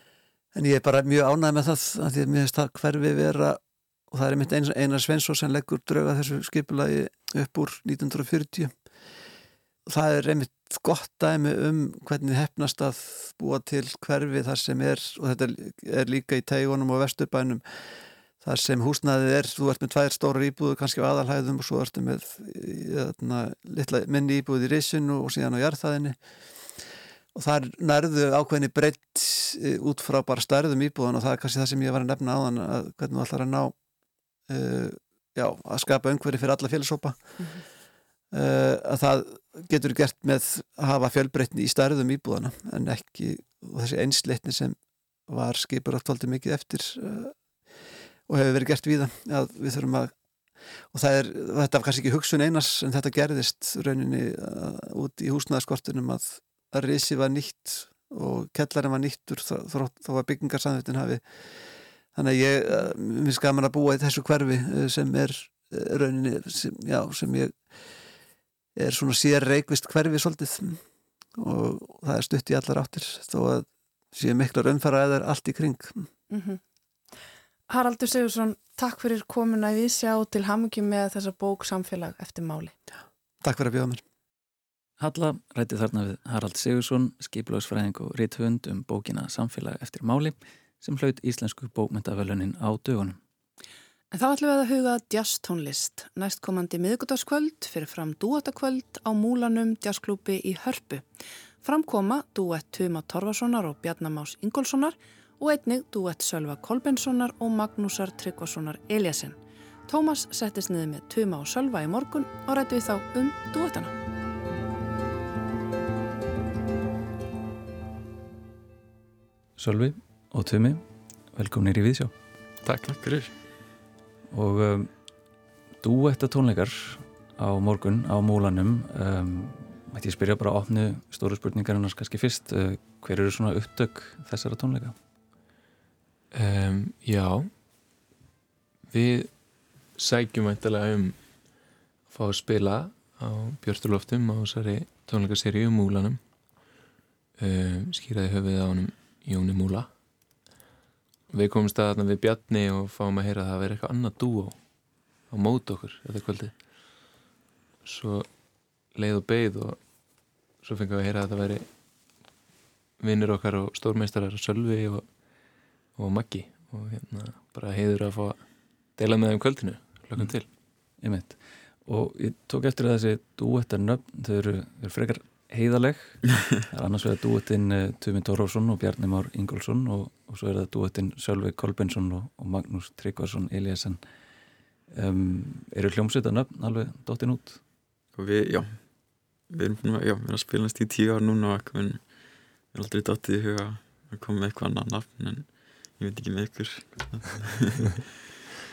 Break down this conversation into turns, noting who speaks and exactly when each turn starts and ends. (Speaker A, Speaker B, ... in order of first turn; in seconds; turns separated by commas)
Speaker A: 0.5-8.7, Speaker A: 9.9-17.6, Speaker A: 18.4-26.2, Speaker A: 27.3-33.8, Speaker A: 34.5-37.5, Speaker B: 37.4-37.6, Speaker A: 38.3-47.4, Speaker A: 48.3-50.1, Speaker A: 50.9-61.2, Speaker A: 62.1-67.6, Speaker A: 68.8-70.8, Speaker A: 71.4-76.1, Speaker B: 76.3-76.6, Speaker B: 77.7-82.7, Speaker A: 83.4-84.0, Speaker C: 85.0-93.2, Speaker B: 94.1-101.1, Speaker B: 101.6-113.9, Speaker C: 119.6-122.1, Speaker D: 122.7-123.3, Speaker C: 124.3-124.9, Speaker C: 125.8-134.9, Speaker E: 136.3-137.5, Speaker E: 138.9-141.4, Speaker E: 142.1-146.2, Speaker E: 147.4-149.9, Speaker E: 151.3-154.7, Speaker E: 155.3-157.1, Speaker E: 157.8-160.0, Speaker E: 160.6-161.7, Speaker E: 163.0-170.5, Speaker C: 171.0-184.0, Speaker C: 184.9-187.6, Speaker D: 188.1-188.9, Speaker D: 189.4-197.9